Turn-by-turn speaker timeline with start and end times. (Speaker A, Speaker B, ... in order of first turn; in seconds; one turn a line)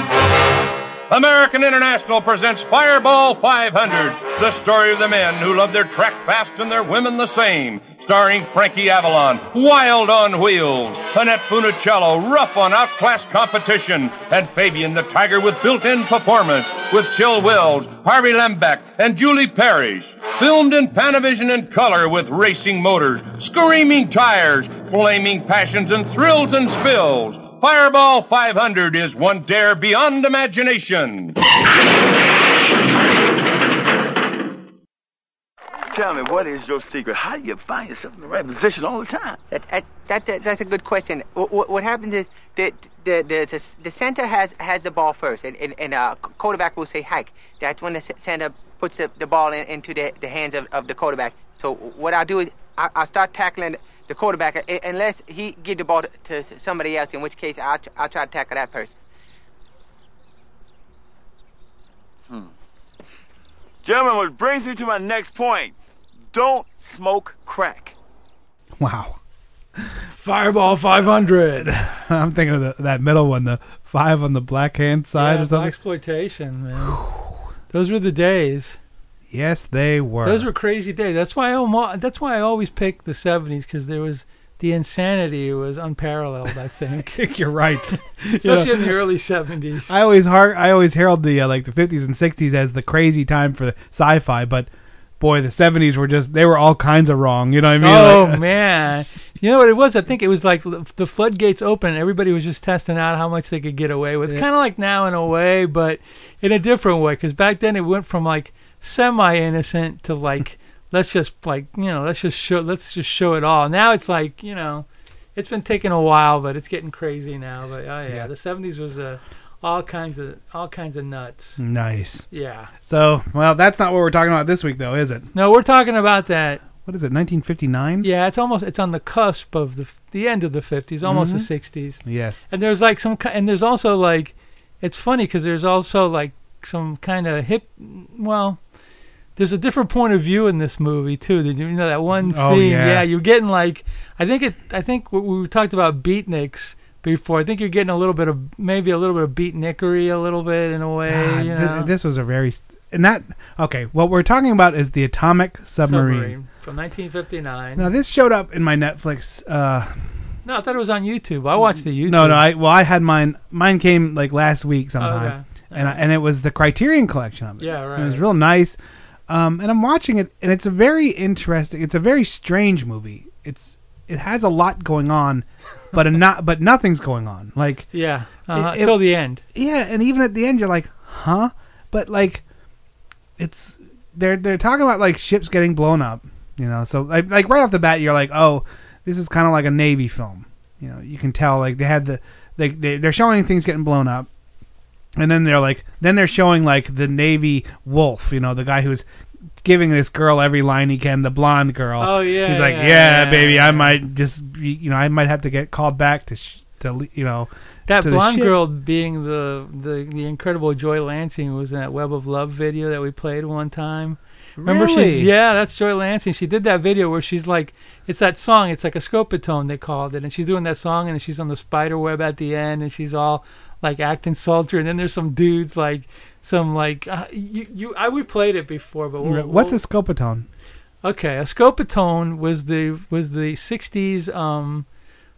Speaker A: 1.1-31.4
Speaker B: 35.9-39.4
Speaker C: 39.5-58.9
Speaker B: 63.8-65.8
Speaker B: 66.3-68.0
Speaker D: 68.8-69.2
Speaker E: 70.2-71.7
Speaker D: 71.6-75.7
Speaker E: 75.2-77.0
Speaker D: 76.8-77.3
Speaker E: 77.7-78.8
Speaker D: 79.3-80.5
Speaker E: 80.2-87.2
Speaker D: 87.0-88.9
Speaker E: 88.4-89.9
Speaker D: 89.9-94.7
Speaker D: 95.2-98.4
Speaker E: 97.8-121.6
Speaker D: 121.6-122.3
Speaker E: 122.3-122.7
Speaker D: 122.9-125.3
Speaker E: 125.3-126.6
Speaker D: 126.8-128.1
Speaker E: 128.0-138.6
Speaker D: 131.0-131.5
Speaker D: 132.0-132.4
Speaker E: 139.4-151.9
Speaker D: 142.3-143.1
Speaker D: 151.1-156.3
Speaker E: 155.8-157.9
Speaker D: 157.8-160.0
Speaker E: 160.4-162.5
Speaker D: 162.0-168.8
Speaker E: 165.0-166.0
Speaker E: 167.6-168.3
Speaker D: 169.3-177.9
Speaker E: 177.9-179.4
Speaker D: 178.5-182.4
Speaker D: 183.4-194.3
Speaker D: 195.2-199.1
Speaker D: 199.6-208.6
Speaker E: 202.0-204.0
Speaker E: 207.9-229.8
Speaker D: 214.6-215.3
Speaker D: 229.2-230.5
Speaker E: 231.0-234.9